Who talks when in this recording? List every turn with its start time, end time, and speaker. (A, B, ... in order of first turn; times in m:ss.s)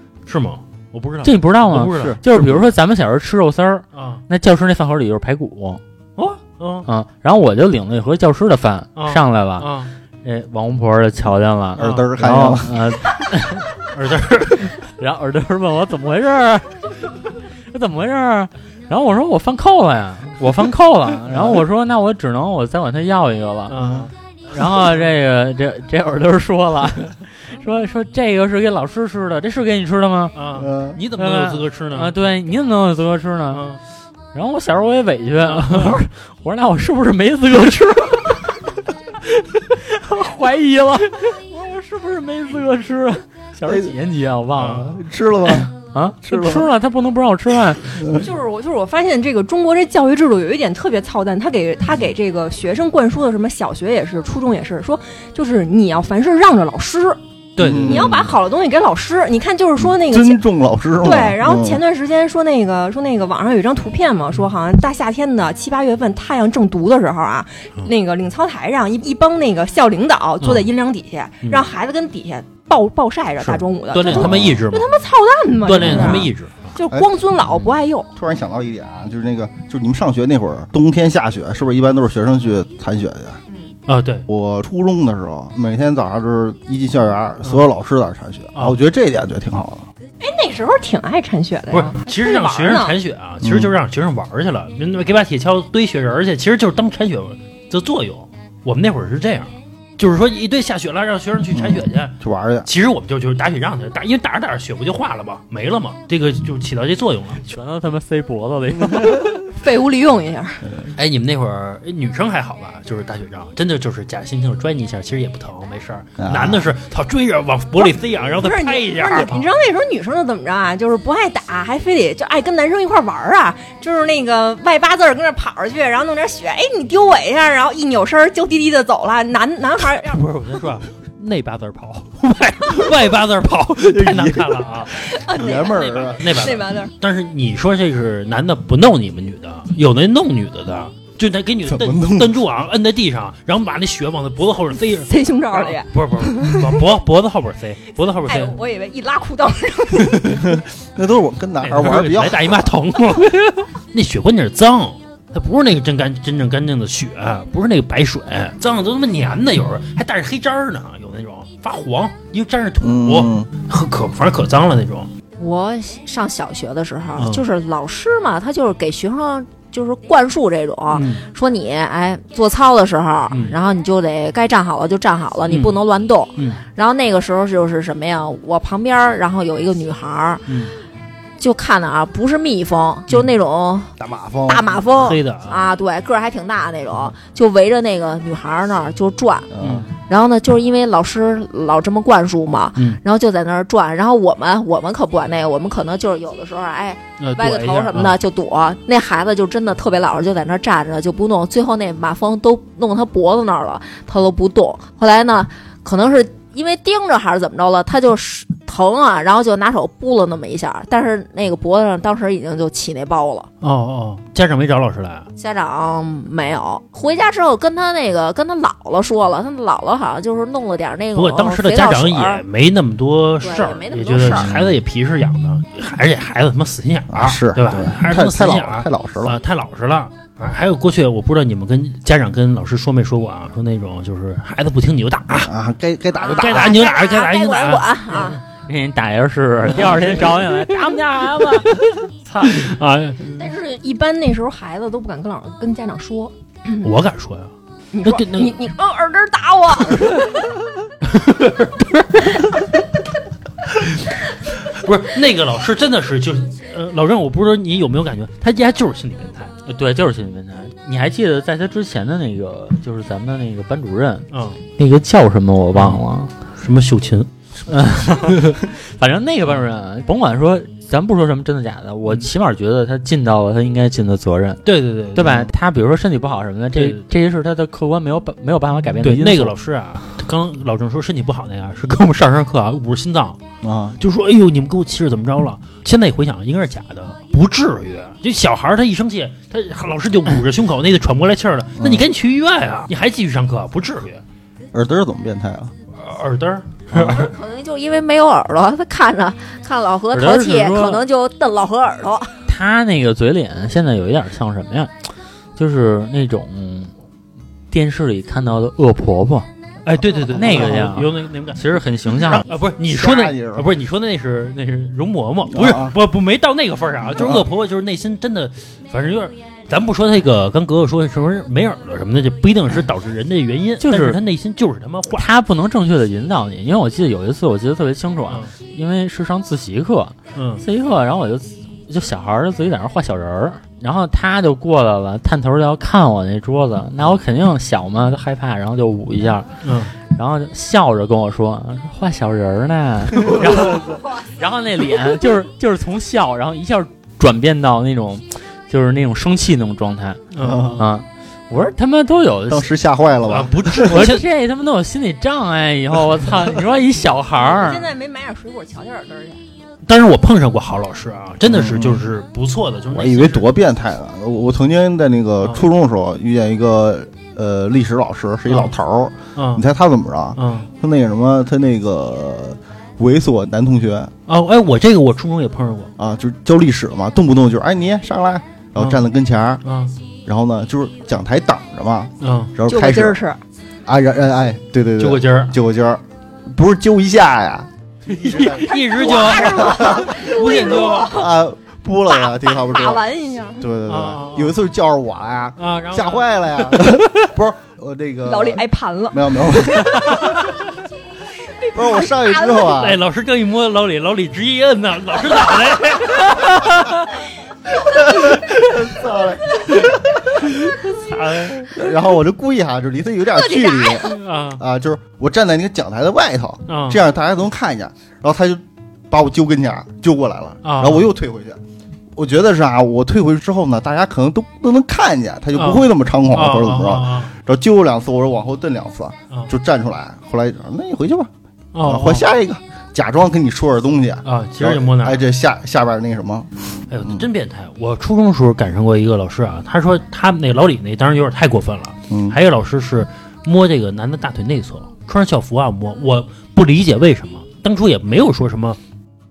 0:00.3-0:02.2 A
0:01.2-0:05.8 B
0:02.0-0:02.6 C
0:03.9-0:04.2 A
0:06.2-0:06.9 A
0:06.8-0:09.7 B
0:09.0-0:09.9 A
0:10.2-0:13.7 B
0:11.8-0:12.8 C
0:11.8-0:12.1 A
0:13.8-0:14.8 A
0:14.7-0:16.8 B
0:17.7-0:24.0 B
0:21.3-0:21.6 C
0:23.7-0:24.1 A
0:24.5-0:30.4 B
0:30.4-0:32.1 A
0:30.6-0:31.0 C
0:31.2-0:33.7 B
0:33.5-0:33.8 A
0:34.3-0:48.2 B
0:35.4-0:36.0 A
0:43.7-0:43.9 C
0:44.6-0:44.9 A
0:44.8-0:45.7 C
0:46.2-0:46.7 C
0:48.1-0:57.2 D
0:57.6-0:58.3 A
0:57.6-0:58.3 C
0:57.8-1:00.4 D
0:59.8-1:01.8 C
1:01.0-1:18.1 D
1:10.4-1:10.7 A
1:13.4-1:14.9 A
1:14.1-1:14.6 C
1:15.6-1:16.7 A
1:15.8-1:16.2 C
1:18.2-1:23.4 C
1:23.9-1:24.3 A
1:24.3-1:29.9 C
1:30.2-1:33.0 D
1:31.7-1:47.4 A
1:33.4-1:33.7 C
1:41.5-1:42.7 C
1:47.4-1:49.5 B
1:49.5-1:50.6 D
1:50.9-1:59.5 A
1:56.2-1:56.7 C
1:57.8-2:10.2 D
2:10.0-2:28.6 A
2:13.8-2:14.8 C
2:14.9-2:16.9 D
2:15.3-2:16.5 C
2:21.7-2:22.3 C
2:25.1-2:26.8 D
2:28.2-2:30.5 D
2:30.3-2:32.7 C
2:31.6-2:45.1 A
2:42.8-2:43.5 C
2:45.4-3:00.7 E
2:47.2-2:47.5 A
2:50.9-2:51.2 A
2:53.3-2:53.6 A
2:55.5-2:55.8 A
2:56.4-2:56.6 A
3:01.4-3:03.9 E
3:04.0-3:05.0 C
3:04.5-3:09.5 E
3:05.0-3:05.7 A
3:09.5-3:09.9 C
3:09.6-3:09.9 A
3:10.1-3:33.5 E
3:17.2-3:18.2 A
3:33.6-3:35.3 A
3:35.4-3:42.4 E
3:41.2-3:55.5 A
3:43.4-3:44.5 E
3:47.1-3:49.4 C
3:55.4-3:56.8 C
3:56.2-3:58.4 E
3:56.2-3:58.4 A
3:58.6-4:02.7 B
3:59.7-4:00.4 A
4:02.4-4:03.3 A
4:03.3-4:06.9 D
4:06.8-4:07.5 A
4:07.9-4:10.5 D
4:08.0-4:08.6 A
4:11.0-4:12.6 A
4:13.7-4:19.5 A
4:19.7-4:26.3 B
4:24.3-4:24.6 A
4:25.7-4:26.0 A
4:26.6-4:27.3 A
4:27.7-4:34.6 B
4:34.6-4:35.4 A
4:35.1-4:39.5 B
4:35.2-4:35.5 C
4:36.8-4:37.0 A
4:39.0-4:43.4 A
4:43.6-4:44.0 C
4:44.0-4:54.2 A
4:51.8-4:52.1 C
4:54.7-4:55.7 C
4:55.9-4:57.3 A
4:56.9-5:02.4 E
5:00.1-5:01.0 B
5:02.5-5:04.9 B
5:05.6-5:06.9 B
5:07.7-5:09.5 B
5:09.8-5:25.3 A
5:10.3-5:12.4 B
5:10.4-5:10.9 C
5:12.8-5:13.7 C
5:15.5-5:16.0 C
5:17.1-5:17.5 C
5:23.8-5:24.2 B
5:25.2-5:39.5 B
5:28.3-5:28.5 A
5:30.4-5:30.6 A
5:39.6-5:40.0 A
5:40.1-5:50.2 B
5:50.3-5:50.8 A
5:50.4-5:50.8 C
5:50.8-5:52.7 B
5:52.5-5:54.1 C
5:53.2-5:54.3 A
5:53.9-5:57.9 B
5:57.4-5:59.4 D
5:59.8-6:03.5 A
6:01.5-6:02.1 C
6:02.9-6:14.1 C
6:08.5-6:08.8 A
6:09.4-6:09.6 A
6:10.4-6:10.7 A
6:14.3-6:15.9 A
6:16.0-6:19.6 C
6:18.8-6:19.0 A
6:19.6-6:20.0 A
6:20.3-6:23.2 C
6:22.2-6:22.5 A
6:22.7-6:23.4 D
6:23.9-6:30.2 C
6:25.0-6:25.6 A
6:28.1-6:31.3 A
6:28.5-6:31.3 D
6:31.0-6:33.0 C
6:32.1-6:33.7 D
6:33.6-6:40.4 C
6:33.9-6:34.6 A
6:35.6-6:37.0 A
6:38.2-6:39.2 D
6:39.9-6:40.6 A
6:41.6-6:42.8 D
6:41.7-6:43.0 C
6:42.7-6:47.1 A
6:47.8-6:50.8 C
6:50.9-6:51.8 A
6:51.7-7:01.6 C
6:53.3-6:54.1 D
6:54.0-6:54.6 A
6:56.7-6:57.0 A
7:00.6-7:01.1 A
7:02.2-7:11.3 C
7:05.6-7:07.3 A
7:11.7-7:12.3 A
7:11.8-7:17.2 C
7:14.2-7:15.2 A
7:16.9-7:28.8 A
7:22.1-7:22.4 C